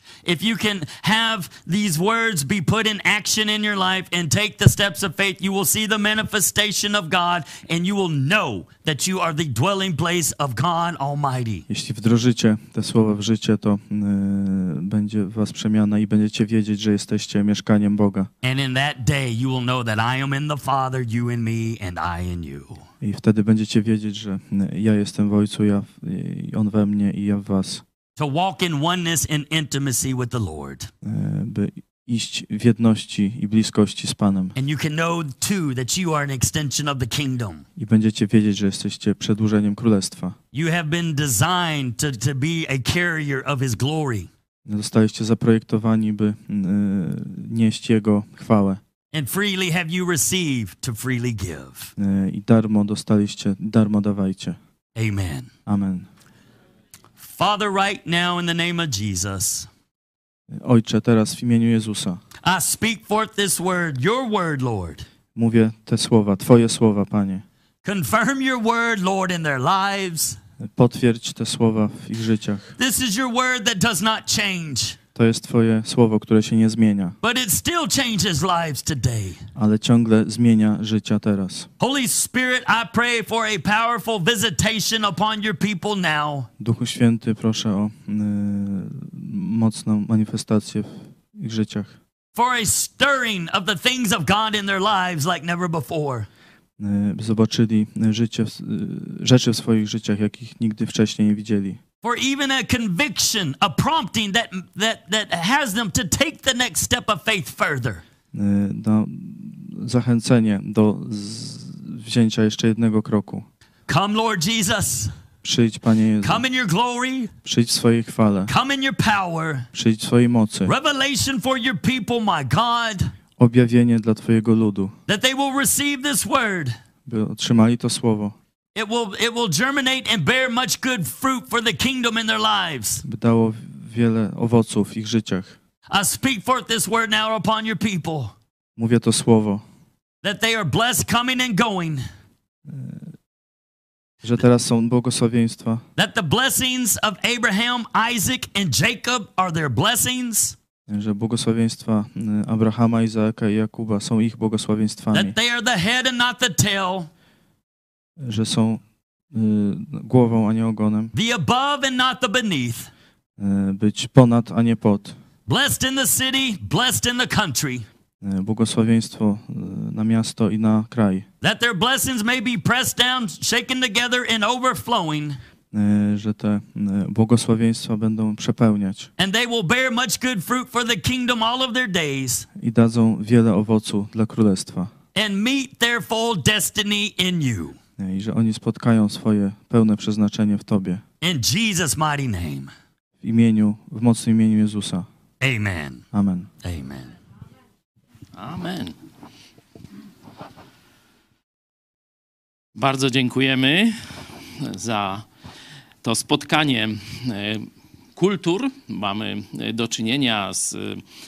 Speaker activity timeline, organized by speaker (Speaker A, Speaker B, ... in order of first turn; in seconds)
Speaker A: 0.2-11.7, 18.4-22.8, 28.2-30.9, 34.6-37.6, 40.5-44.3, 49.1-51.9, 55.0-55.5, 57.2-59.7, 62.4-65.1, 67.8-70.4, 72.8-75.0, 77.2-79.4, 81.8-86.5, 92.4-96.3, 102.0-108.0, 113.9-115.1, 116.2-117.3, 118.5-119.7, 120.7-123.1, 125.1-126.8, 128.8-133.0, 135.9-138.3, 140.2-142.1, 146.0-150.6, 155.1-157.1, 161.1-162.9, 165.5-167.9, 171.4-175.4, 179.2-182.5, 185.2-187.8, 191.2-192.7, 195.4-196.0, 196.6-197.1
Speaker B: 11.7-18.3, 23.0-27.8, 31.0-34.6, 37.8-40.4, 44.7-48.8, 52.0-54.6, 55.7-56.1, 60.5-62.2, 65.3-67.4, 70.6-72.8, 75.2-77.2, 79.6-81.7, 86.6-92.0, 96.8-101.8, 108.3-113.4, 115.4-116.4, 117.4-118.5, 119.7-120.7, 123.4-125.0, 127.1-128.4, 133.0-135.6, 138.8-139.6, 142.7-143.1, 144.2-145.8, 150.9-155.3, 158.2-161.1, 163.4-165.2, 168.2-171.3, 175.7-179.1, 182.6-184.9, 188.0-191.0, 193.2-195.1, 196.1-196.5
Speaker C: 198.3-198.9, 202.8-205.3, 206.0-211.0